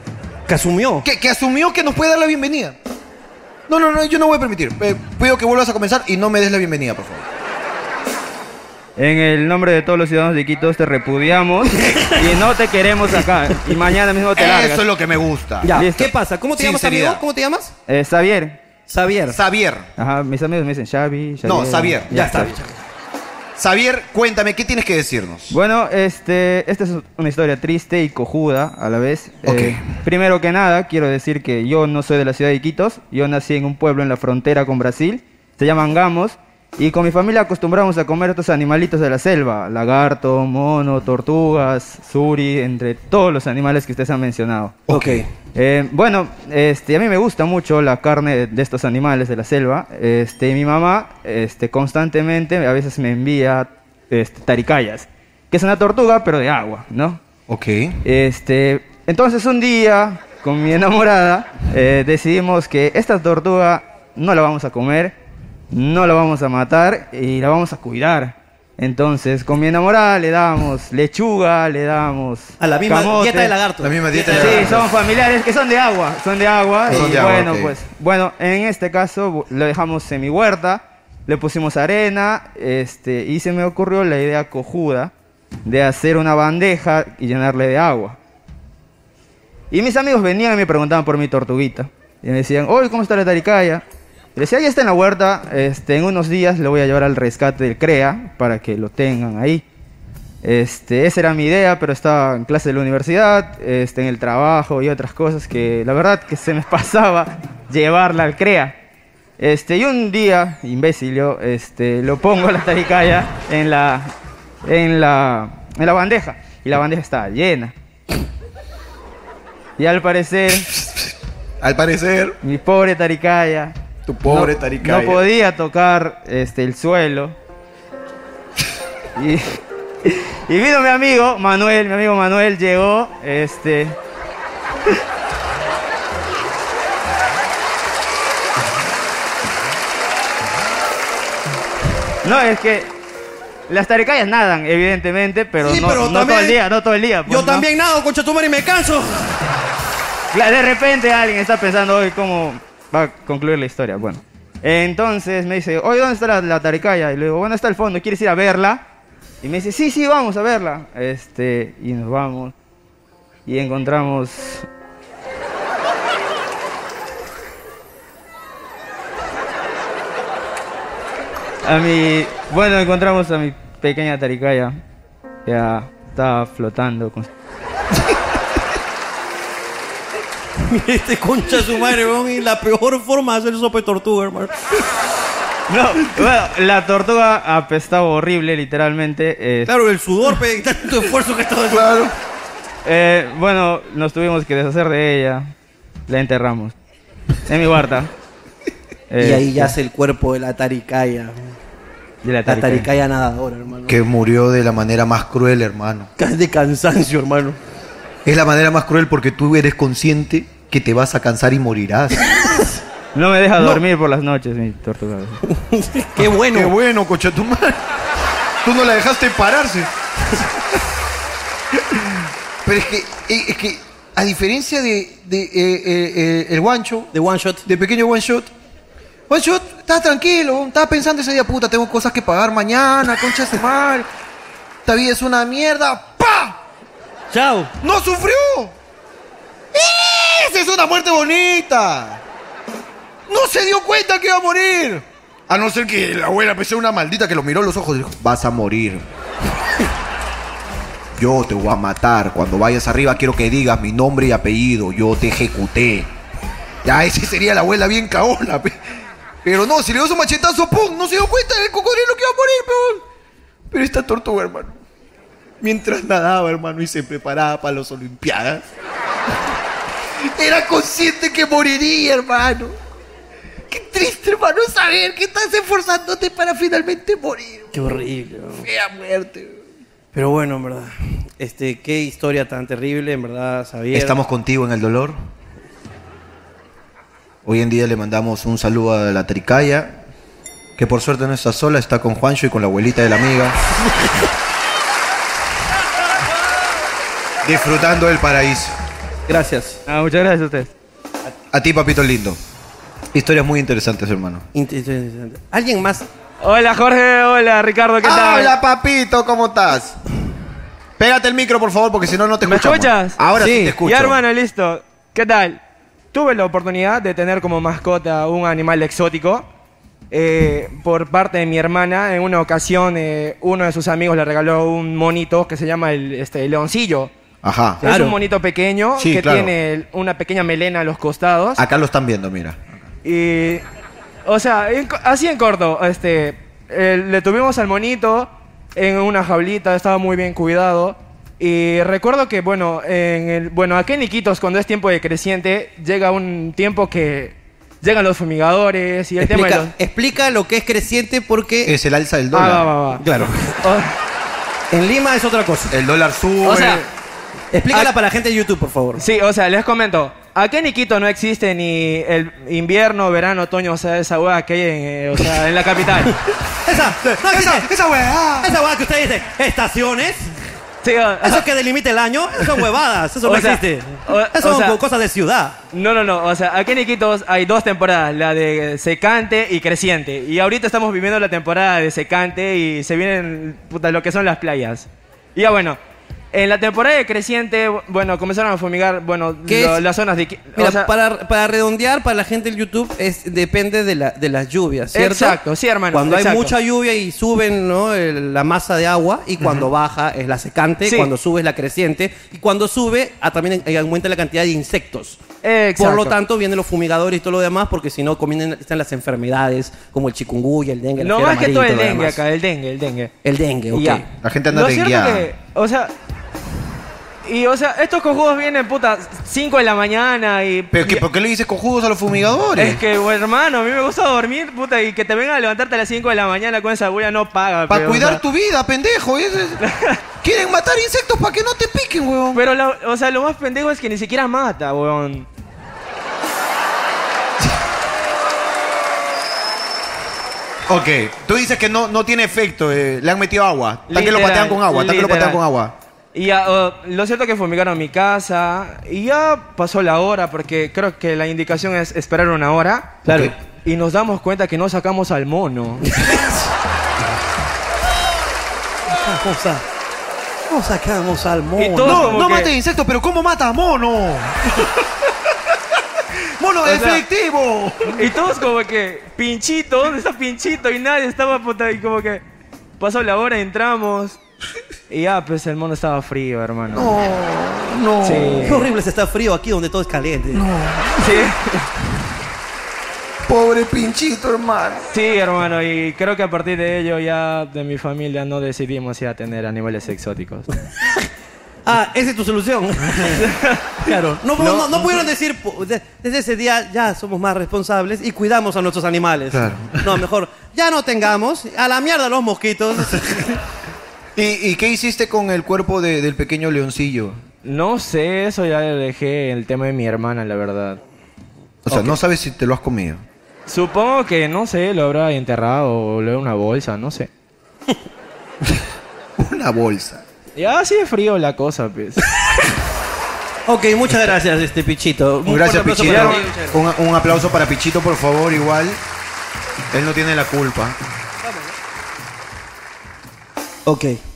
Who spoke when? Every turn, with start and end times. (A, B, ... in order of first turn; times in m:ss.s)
0:00.5-0:01.1 A
0:01.0-0:02.8 B
0:03.7-0:07.3 B
0:09.0-0:14.9 C
0:11.8-0:12.3 A
0:14.4-0:15.9 B
0:15.6-0:17.7 A
0:15.7-0:16.1 C
0:16.6-0:17.2 B
0:17.9-0:18.6 C
0:18.9-0:19.4 A
0:19.3-0:19.9 B
0:20.0-0:22.6 C
0:21.4-0:22.2 B
0:22.1-0:22.8 A
0:23.6-0:25.6 B
0:25.5-0:44.8 C
0:29.4-0:29.8 B
0:44.9-0:45.2 B
0:44.9-0:45.3 A
0:45.6-0:57.2 C
0:57.5-0:58.0 B
0:58.0-1:05.2 C
1:05.7-1:13.6 C
1:12.6-1:14.8 A
1:13.8-1:14.9 B
1:14.3-1:25.1 C
1:16.9-1:17.7 B
1:16.9-1:17.3 A
1:25.6-1:28.2 C
1:29.7-1:33.8 C
1:34.4-1:39.6 C
1:40.4-1:48.8 C
1:49.4-1:54.1 C
1:54.6-1:57.7 C
1:59.8-2:00.7 C
2:01.6-2:02.4 B
2:02.4-2:07.4 C
2:04.1-2:05.2 B
2:09.2-2:14.0 C
2:22.2-2:22.9 C
2:23.7-2:27.7 C
2:25.6-2:26.6 A
2:27.3-2:29.4 A
2:30.3-2:38.8 C
2:39.4-2:42.5 C
2:43.5-2:44.7 C
2:51.6-2:54.8 C
2:55.4-2:57.3 C
3:00.6-3:04.6 A
3:05.7-3:09.7 C
3:09.7-3:11.9 A
3:11.7-3:12.1 B
3:12.8-3:15.5 C
3:16.1-3:16.7 C
3:17.5-3:18.1 C
3:19.1-3:19.7 C
3:19.2-3:21.6 A
3:22.2-3:22.9 C
3:22.5-3:24.0 A
3:23.9-3:26.1 B
3:26.2-3:27.6 A
3:28.2-3:32.3 B
3:33.1-3:35.4 C
3:35.5-3:36.8 A
3:36.2-3:37.8 B
3:38.6-3:39.9 B
3:42.6-3:47.1 B
3:47.1-3:47.6 A
3:47.6-3:48.5 B
3:49.3-3:53.7 B
3:54.9-3:56.6 B
3:57.3-3:57.7 A
3:57.8-3:58.8 B
3:59.7-4:02.2 B
4:03.3-4:09.0 B
4:11.2-4:16.1 B
4:16.8-4:18.8 B
4:19.4-4:23.0 B
4:23.7-4:24.8 B
4:25.6-4:28.6 B
4:30.2-4:32.8 B
4:33.7-4:38.0 B
4:37.7-4:38.7 A
4:38.6-4:39.6 B
4:40.1-4:44.2 A
4:43.9-4:45.2 B
4:47.4-4:50.0 B
4:50.8-4:53.6 B
4:57.4-4:58.8 B
4:59.3-4:59.8 A
4:59.9-5:00.7 C
5:01.5-5:02.4 B
5:03.1-5:04.4 B
5:04.5-5:06.1 A
5:06.4-5:08.5 D
5:08.0-5:10.0 B
5:11.0-5:14.2 B
5:12.4-5:13.2 D
5:13.4-5:13.8 A
5:13.8-5:15.6 D
5:16.1-5:19.5 D
5:20.1-5:27.1 D
5:27.4-5:27.8 B
5:27.8-5:31.6 D
5:27.8-5:28.2 A
5:29.0-5:29.5 B
5:31.6-5:32.8 B
5:33.0-5:33.6 D
5:34.2-5:49.7 D
5:49.2-5:51.7 A
5:51.6-5:52.7 B
5:52.3-5:53.0 D
5:53.0-5:53.6 A
5:53.6-5:53.9 D
5:54.7-5:55.8 A
5:55.7-5:56.8 B
5:56.4-5:56.8 D
5:57.5-5:59.0 A
5:59.0-6:06.2 D
6:06.6-6:07.7 A
6:07.0-6:08.5 B
6:08.4-6:10.3 A
6:10.8-6:11.4 D
6:11.2-6:15.6 A
6:13.2-6:14.8 D
6:15.7-6:25.8 D
6:26.3-6:30.9 D
6:29.5-6:29.8 A
6:30.6-6:35.4 A
6:34.9-6:36.5 D
6:35.9-6:52.2 A
6:40.9-6:41.1 D
6:45.4-6:46.2 D
6:51.0-6:53.1 D
6:53.2-6:54.1 A
6:53.7-6:55.9 D
6:54.2-6:55.3 B
6:57.2-7:01.0 D
7:00.7-7:02.8 B
7:02.6-7:08.2 D
7:07.7-7:09.6 B
7:09.6-7:10.0 D
7:10.2-7:12.4 B
7:12.3-7:15.3 D
7:20.7-7:25.7 B
7:23.9-7:25.4 D
7:26.1-7:35.9 D
7:33.0-7:33.3 A
7:33.1-7:33.3 B
7:35.8-7:36.5 A
7:38.9-7:39.6 A
7:40.5-7:42.2 A
7:41.6-7:42.5 D
7:41.8-7:44.7 B
7:46.4-7:48.0 B
7:46.6-7:47.0 D
7:47.9-7:52.2 D
7:52.8-7:54.2 D
7:54.9-7:57.0 D
7:56.7-7:58.6 B
7:58.0-7:58.7 D
7:58.4-8:00.4 A
8:00.3-8:01.2 B
8:01.0-8:01.7 D
8:03.3-8:04.9 B
8:04.9-8:10.5 D
8:11.6-8:23.4 A
8:13.2-8:13.7 D
8:14.4-8:14.7 B
8:19.3-8:20.0 B
8:24.2-8:27.2 B
8:27.4-8:30.8 D
8:31.7-8:33.0 B
8:33.5-8:37.1 D
8:39.2-8:40.0 B
8:40.4-8:42.1 D
8:43.5-8:46.5 A
8:45.3-8:48.8 B
8:45.8-8:46.4 D
8:49.7-8:50.8 B
8:51.2-8:51.5 A
8:53.7-8:54.0 A